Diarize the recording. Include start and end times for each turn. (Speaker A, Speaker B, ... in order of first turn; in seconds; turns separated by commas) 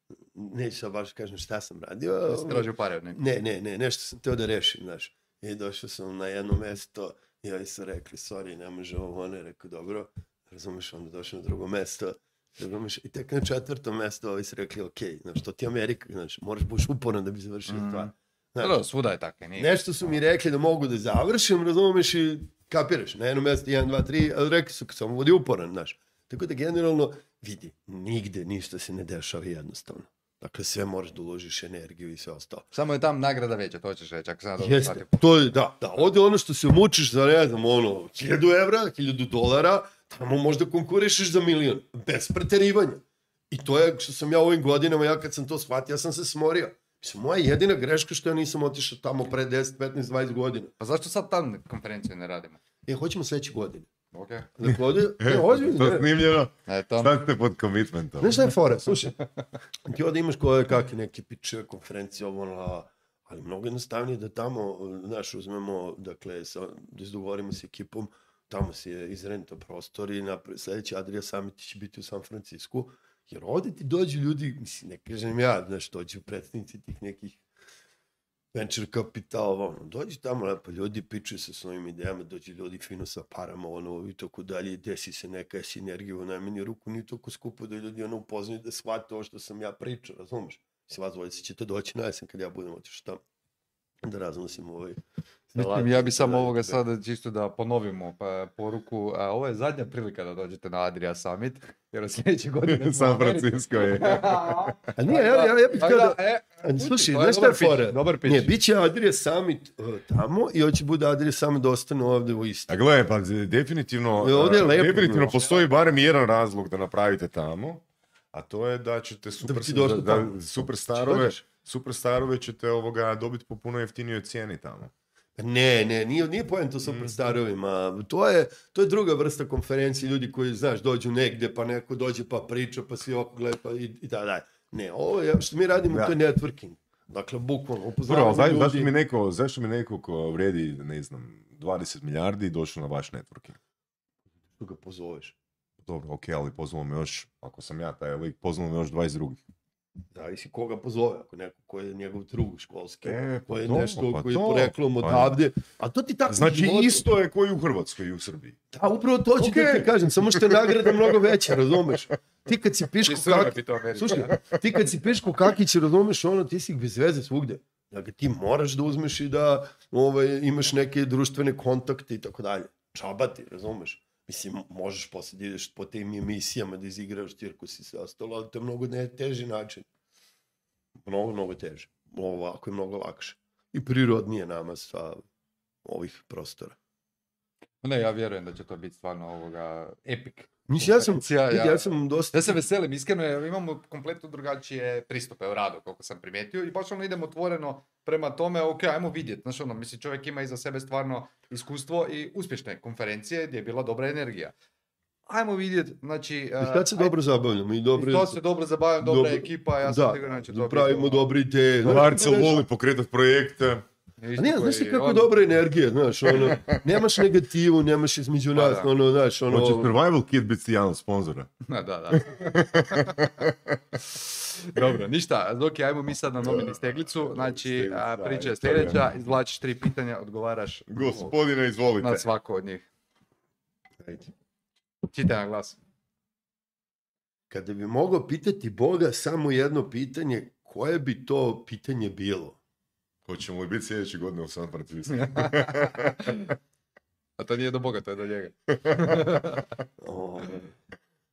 Speaker A: 0.2-18.8, Speaker B: 2.2-3.2, Speaker B: 17.7-19.7, Speaker A: 19.6-32.7, Speaker B: 32.7-35.2, Speaker A: 34.6-50.7, Speaker B: 50.8-52.6, Speaker A: 52.9-53.9, Speaker B: 54.1-54.5, Speaker A: 54.5-56.1, Speaker C: 54.7-58.5, Speaker B: 56.7-57.2, Speaker A: 58.2-59.2, Speaker A: 59.8-77.4, Speaker A: 78.5-93.2, Speaker A: 94.0-95.0, Speaker A: 95.5-96.8, Speaker B: 95.5-108.5, Speaker C: 102.7-104.8, Speaker A: 105.0-112.8, Speaker C: 112.7-124.9, Speaker A: 114.2-115.5, Speaker A: 119.4-121.4, Speaker A: 125.4-138.9, Speaker C: 126.8-127.1, Speaker C: 135.9-136.2, Speaker C: 138.1-143.6, Speaker A: 144.6-145.3, Speaker C: 145.8-149.4, Speaker A: 150.1-157.1, Speaker C: 153.0-155.4, Speaker C: 156.3-158.6, Speaker A: 158.7-179.8, Speaker C: 159.4-161.9, Speaker B: 163.0-164.6, Speaker A: 181.0-185.2, Speaker A: 185.8-186.8, Speaker B: 187.8-204.5, Speaker A: 190.7-192.6, Speaker B: 205.3-207.1, Speaker A: 206.6-208.4, Speaker B: 207.9-211.3, Speaker A: 209.0-212.6, Speaker C: 211.8-213.8, Speaker B: 214.2-215.3, Speaker A: 214.4-219.9, Speaker C: 216.3-217.2, Speaker B: 218.5-218.9, Speaker C: 219.5-221.5, Speaker B: 221.7-223.1, Speaker C: 222.1-223.9, Speaker B: 224.1-231.3, Speaker C: 226.4-229.1, Speaker C: 230.9-232.3, Speaker B: 232.0-232.8, Speaker A: 234.0-234.3, Speaker B: 235.1-235.8, Speaker A: 237.5-242.6, Speaker C: 243.2-246.4, Speaker B: 245.2-246.5, Speaker B: 247.4-249.7, Speaker A: 250.0-250.7